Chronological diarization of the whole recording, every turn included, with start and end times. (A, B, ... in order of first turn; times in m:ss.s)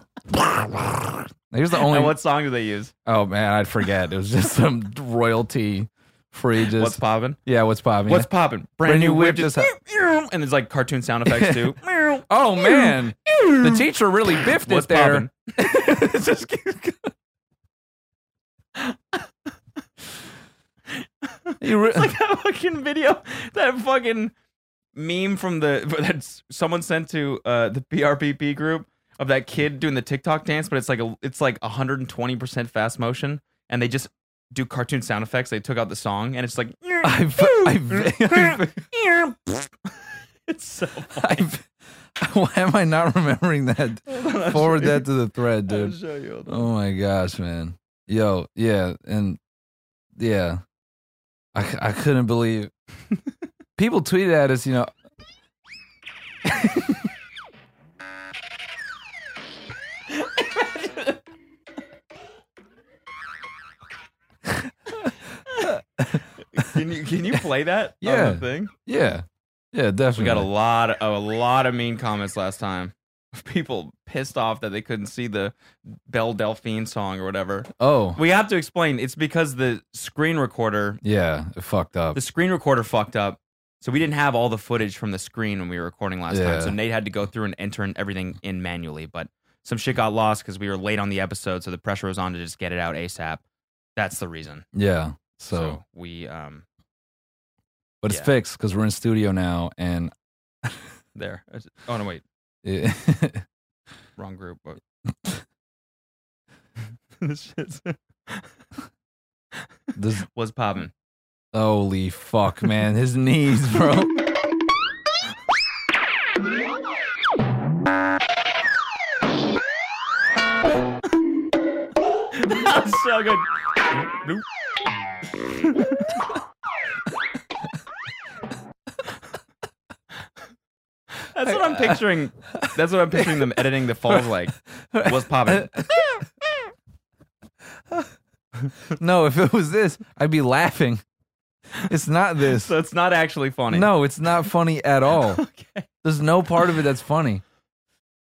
0:00.3-0:02.2 A
0:01.9-0:02.9 B
0:03.1-0:08.3 A
0:06.7-0:07.4 B
0:08.1-0:13.8 B
0:08.8-0:09.7 A
0:11.3-0:17.1 A
0:14.4-0:15.4 B
0:18.8-0:19.2 B
0:20.9-0:24.3 B
0:21.6-0:22.1 A
0:25.0-0:39.6 B
0:37.0-0:38.8 A
0:40.5-0:41.5 B
0:41.2-0:49.4 A
0:44.1-0:45.1 B
0:45.7-0:46.7 B
0:50.2-0:50.6 A
0:51.5-0:52.7 A
0:53.8-0:54.9 A
0:56.4-0:57.1 A
1:00.2-1:01.2 B
1:04.5-1:05.1 A
1:05.6-1:06.2 A
1:06.5-1:08.7 B
1:08.0-1:10.5 A
1:10.2-1:21.0 B
1:17.8-1:18.2 A
1:21.0-1:22.2 A
1:22.1-1:33.4 B
1:26.3-1:26.8 A
1:34.0-1:34.6 B
1:34.7-1:35.8 A
1:35.5-1:36.6 B
1:38.0-1:40.1 A
1:41.2-1:42.2 B
1:42.6-1:43.4 A
1:44.2-1:44.8 B
1:47.2-1:48.5 B
1:50.0-1:50.3 A
1:50.4-1:50.9 B
1:51.5-1:54.1 A
2:02.3-2:03.5 B
2:04.0-2:04.4 B
2:05.6-2:06.2 B
2:11.2-2:15.7 B
2:11.4-2:16.3 A
2:19.0-2:21.0 A
2:21.9-2:22.7 A
2:22.5-2:23.9 B
2:23.7-2:25.4 A
2:25.2-2:25.9 B
2:26.0-2:27.4 A